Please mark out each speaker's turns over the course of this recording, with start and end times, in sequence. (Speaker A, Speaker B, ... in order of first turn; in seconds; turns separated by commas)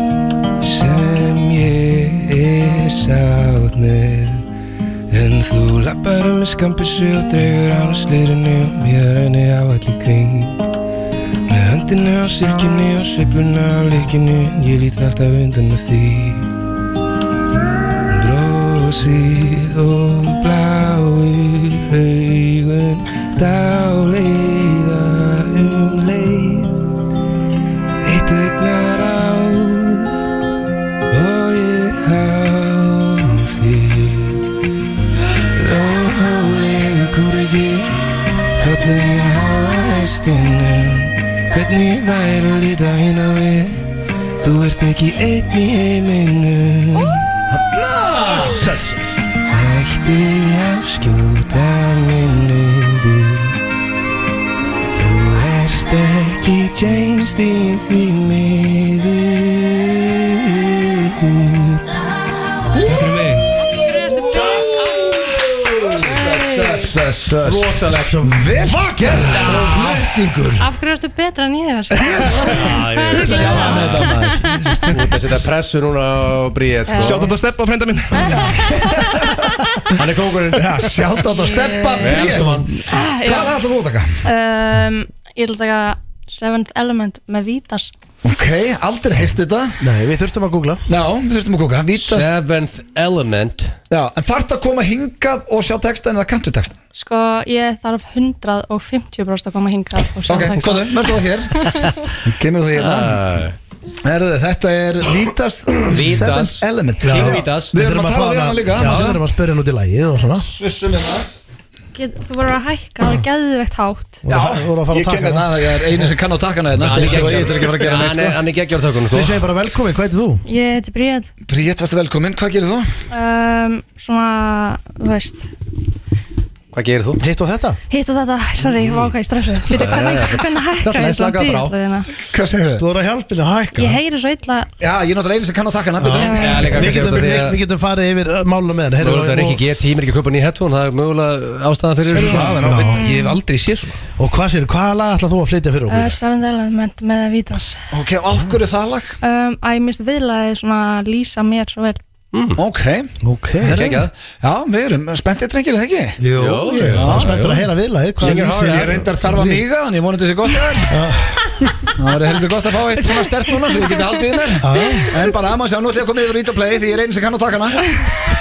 Speaker A: 0.6-4.5, Speaker A: 5.1-10.6, Speaker A: 11.5-16.5, Speaker A: 18.1-26.8, Speaker A: 28.0-30.1, Speaker A: 31.1-34.4, Speaker A: 35.5-43.9, Speaker A: 44.4-47.2, Speaker B: 47.5-48.6, Speaker C: 48.3-49.0, Speaker A: 49.5-53.5, Speaker A: 55.0-61.8, Speaker A: 62.8-63.5, Speaker D: 63.7-65.1, Speaker B: 63.8-70.1, Speaker D: 66.0-66.9, Speaker E: 67.4-68.2, Speaker C: 67.8-70.7, Speaker D: 70.6-74.8, Speaker B: 72.1-72.5, Speaker E: 72.5-74.2, Speaker B: 73.2-74.5, Speaker A: 74.7-75.1, Speaker E: 74.9-77.3, Speaker D: 76.9-77.3, Speaker A: 77.0-78.8, Speaker D: 78.1-79.9, Speaker B: 78.7-79.3, Speaker E: 79.9-80.9, Speaker B: 80.5-84.2, Speaker D: 81.3-82.3, Speaker E: 82.0-82.8, Speaker D: 82.9-83.6, Speaker D: 84.2-87.9, Speaker B: 88.2-89.8, Speaker C: 89.8-90.9, Speaker B: 90.9-92.3, Speaker E: 92.0-93.8, Speaker B: 93.9-96.8, Speaker D: 97.0-101.9, Speaker B: 100.3-103.4, Speaker E: 102.8-103.5, Speaker B: 104.0-109.2, Speaker E: 105.9-107.8, Speaker C: 107.0-110.5, Speaker E: 108.8-109.1, Speaker B: 110.4-111.4, Speaker D: 111.9-114.2, Speaker C: 114.2-116.1, Speaker B: 114.3-118.4, Speaker E: 116.8-119.4, Speaker C: 117.0-117.4, Speaker C: 119.1-120.5, Speaker D: 120.5-121.3, Speaker B: 121.5-122.9, Speaker D: 123.1-125.5, Speaker E: 126.7-127.2, Speaker C: 127.2-127.8, Speaker D: 127.9-132.1, Speaker E: 128.8-129.1, Speaker E: 129.7-131.8, Speaker B: 132.3-132.8, Speaker C: 132.8-134.0, Speaker D: 133.7-134.7, Speaker B: 134.8-136.7, Speaker C: 136.0-139.6, Speaker D: 136.2-136.9, Speaker E: 136.3-137.6, Speaker E: 139.0-142.6, Speaker A: 142.1-144.0, Speaker B: 142.2-143.0, Speaker C: 142.4-143.0, Speaker D: 142.9-143.4, Speaker C: 144.2-146.2, Speaker D: 145.9-147.8, Speaker B: 147.9-149.2, Speaker D: 149.2-152.0, Speaker E: 152.3-152.6, Speaker B: 152.6-153.1, Speaker C: 153.2-154.0, Speaker E: 153.6-154.1, Speaker B: 153.7-157.3, Speaker C: 156.2-159.6, Speaker E: 156.4-159.0, Speaker B: 158.2-160.9, Speaker C: 160.9-161.9, Speaker B: 162.0-167.9, Speaker C: 164.6-165.2